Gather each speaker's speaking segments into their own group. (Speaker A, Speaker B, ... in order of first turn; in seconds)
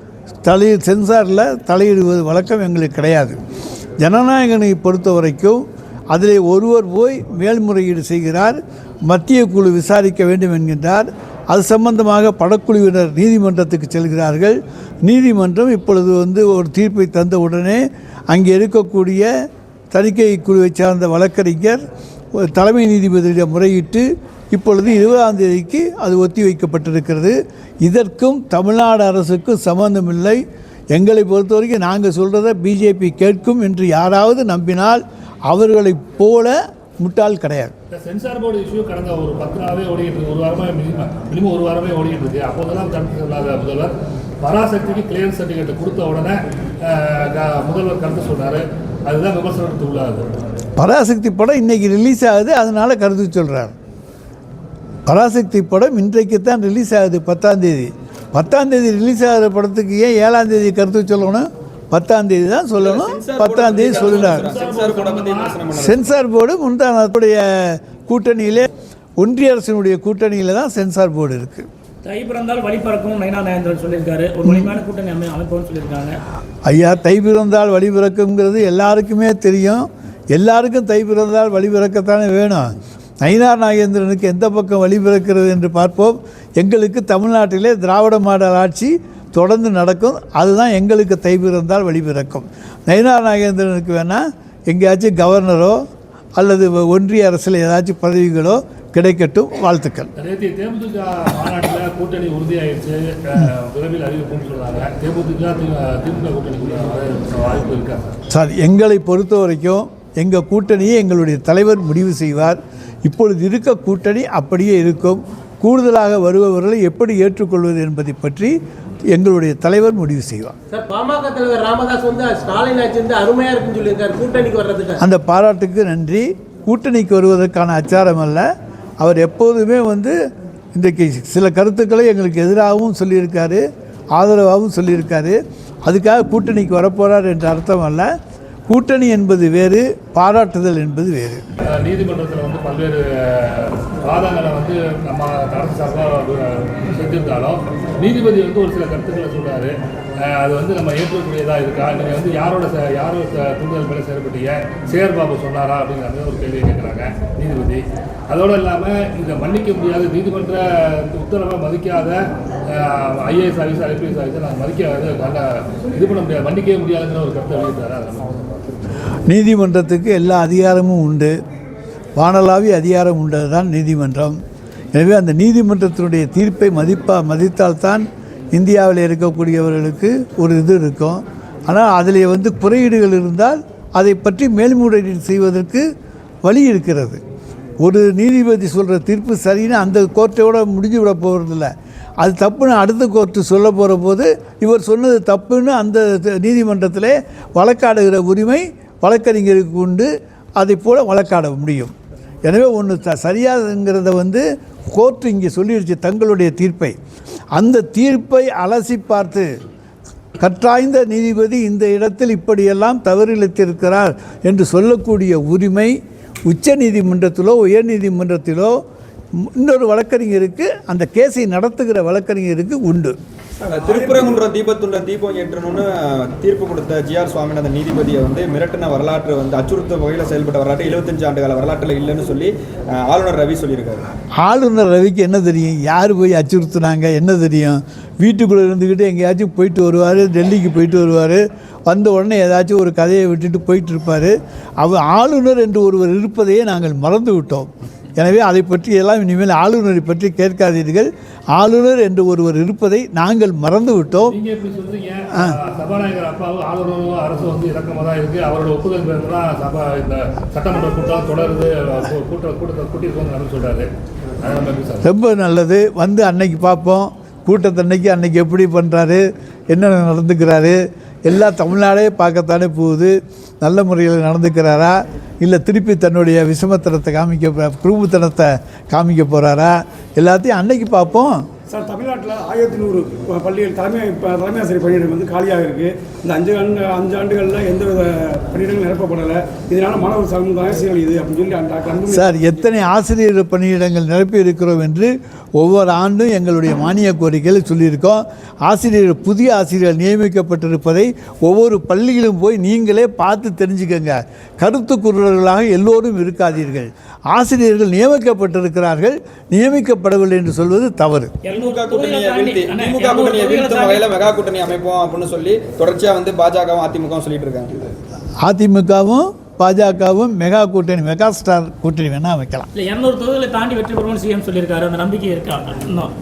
Speaker A: 0.5-3.4, 4.0-19.3, 19.9-21.8, 22.4-37.7, 50.8-53.7, 55.1-64.5, 65.8-71.7, 74.5-74.8, 76.7-95.8, 96.4-100.1, 108.3-118.5, 119.1-120.6, 125.0-128.5, 129.0-130.2, 130.8-138.1, 138.7-141.4, 169.3-171.3, 172.2-174.4, 174.9-185.8, 186.4-187.2, 187.8-201.9, 202.4-207.0, 207.6-209.5, 210.4-215.9, 216.5-218.8, 219.4-223.2, 234.4-254.4, 255.3-255.6, 265.0-281.5, 292.1-311.3, 318.4-322.7
Speaker B: 37.9-50.3, 63.8-65.6, 100.2-108.2, 141.7-168.6, 254.3-263.9, 264.4-265.1
Speaker C: 62.8-66.0, 223.8-234.0, 311.5-317.9
Speaker D: 72.0-76.2, 122.8-123.1, 311.4-314.1, 322.7-326.1
Speaker E: 120.8-125.0
Speaker F: 223.6-224.4, 281.7-292.4